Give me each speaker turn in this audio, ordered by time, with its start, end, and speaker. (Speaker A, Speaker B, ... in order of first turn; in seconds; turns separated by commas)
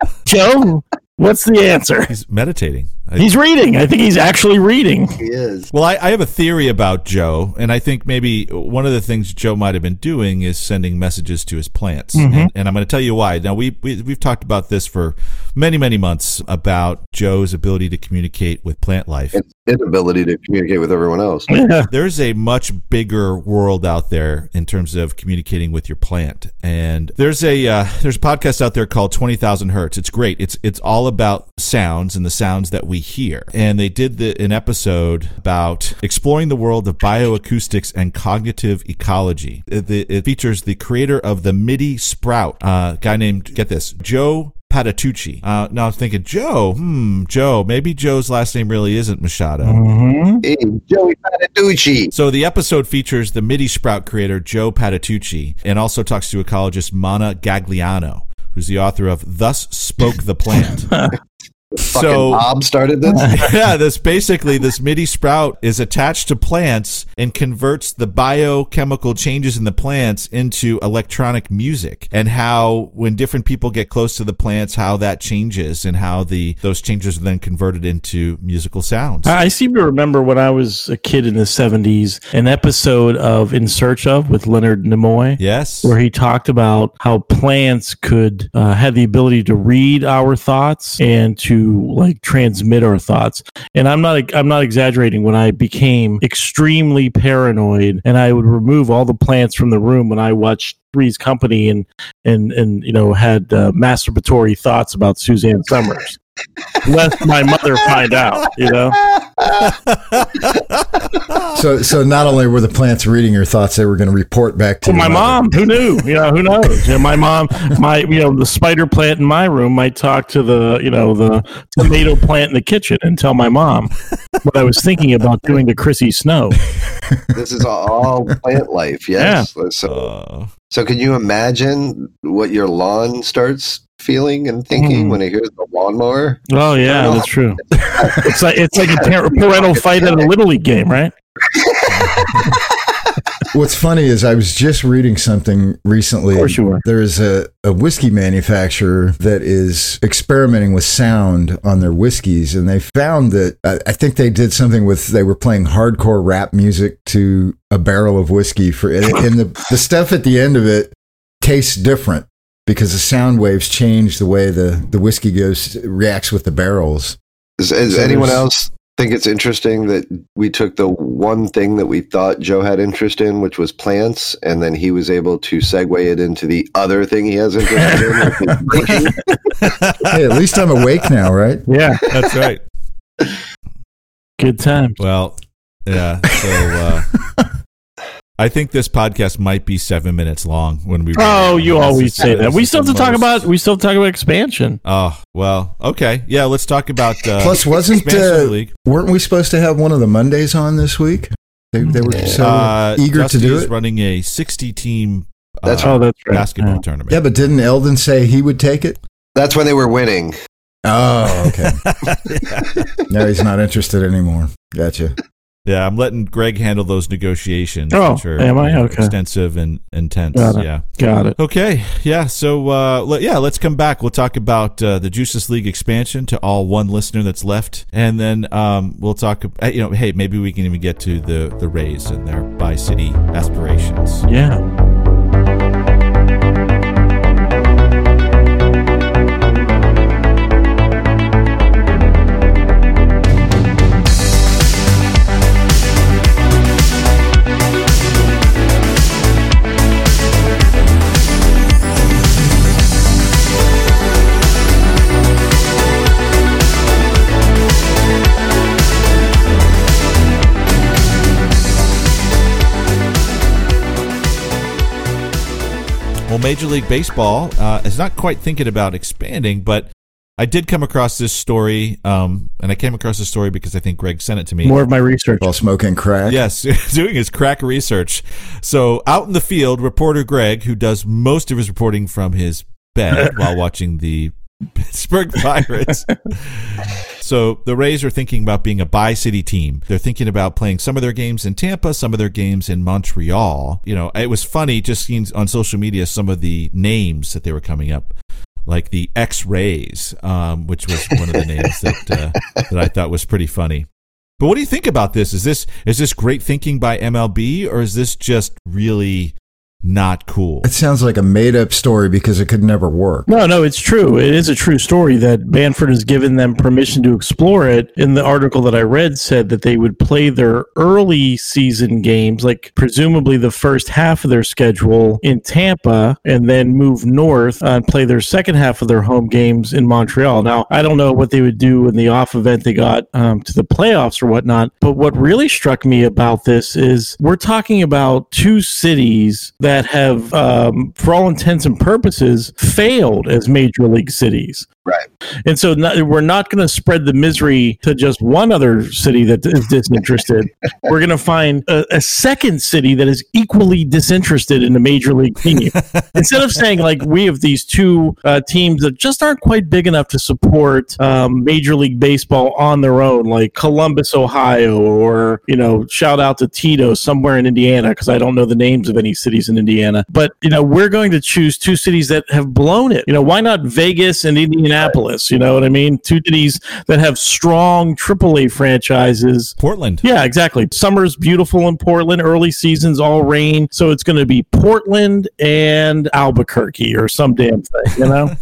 Speaker A: 0.2-2.1, Speaker B: 2.1-3.3, Speaker A: 3.2-5.2, Speaker C: 5.2-5.7, Speaker B: 5.7-19.4, Speaker A: 12.2-12.5, Speaker C: 19.3-21.5, Speaker A: 21.5-21.9, Speaker B: 21.9-49.8, Speaker A: 49.6-50.4, Speaker C: 50.4-52.1, Speaker B: 52.1-60.9, Speaker A: 60.6-61.1, Speaker C: 61.7-63.5, Speaker B: 61.9-62.5, Speaker A: 63.1-63.4, Speaker B: 63.3-79.3, Speaker A: 79.2-106.2, Speaker B: 85.4-85.9, Speaker A: 106.8-109.0, Speaker C: 109.0-109.8, Speaker B: 109.7-111.6, Speaker D: 111.5-115.5, Speaker A: 114.8-123.9, Speaker A: 124.4-126.6, Speaker D: 127.0-127.3, Speaker C: 127.3-130.1, Speaker A: 129.2-129.5, Speaker B: 129.8-130.5, Speaker C: 130.7-137.2, Speaker A: 134.7-135.2, Speaker A: 136.5-137.6, Speaker C: 137.8-138.3, Speaker A: 138.2-141.1, Speaker C: 139.3-140.2, Speaker C: 141.5-142.5, Speaker B: 141.9-142.4, Speaker D: 143.5-167.2, Speaker A: 146.3-146.8, Speaker C: 167.6-179.2, Speaker A: 167.9-168.4, Speaker A: 177.8-178.3, Speaker B: 179.6-180.1, Speaker D: 180.1-181.6, Speaker A: 181.7-182.0, Speaker B: 182.1-182.6, Speaker A: 184.4-185.0, Speaker B: 185.0-187.1, Speaker D: 186.4-186.7, Speaker B: 188.4-193.5, Speaker A: 191.2-194.8, Speaker B: 194.8-198.7, Speaker D: 197.4-203.7, Speaker B: 202.4-207.2, Speaker C: 205.6-205.9, Speaker A: 205.8-206.8, Speaker D: 207.1-209.0, Speaker C: 209.3-210.3, Speaker D: 210.8-211.8, Speaker B: 211.5-212.8, Speaker D: 213.1-215.1, Speaker B: 215.7-234.2, Speaker A: 217.9-219.1, Speaker A: 220.3-221.3, Speaker A: 234.2-234.6, Speaker B: 266.3-274.8, Speaker A: 274.6-275.4, Speaker D: 275.4-276.4, Speaker B: 276.3-298.1, Speaker B: 298.6-303.9, Speaker B: 304.4-310.7, Speaker D: 310.6-313.3, Speaker A: 313.3-344.6, Speaker A: 345.4-388.3, Speaker B: 355.8-356.1, Speaker B: 379.6-380.0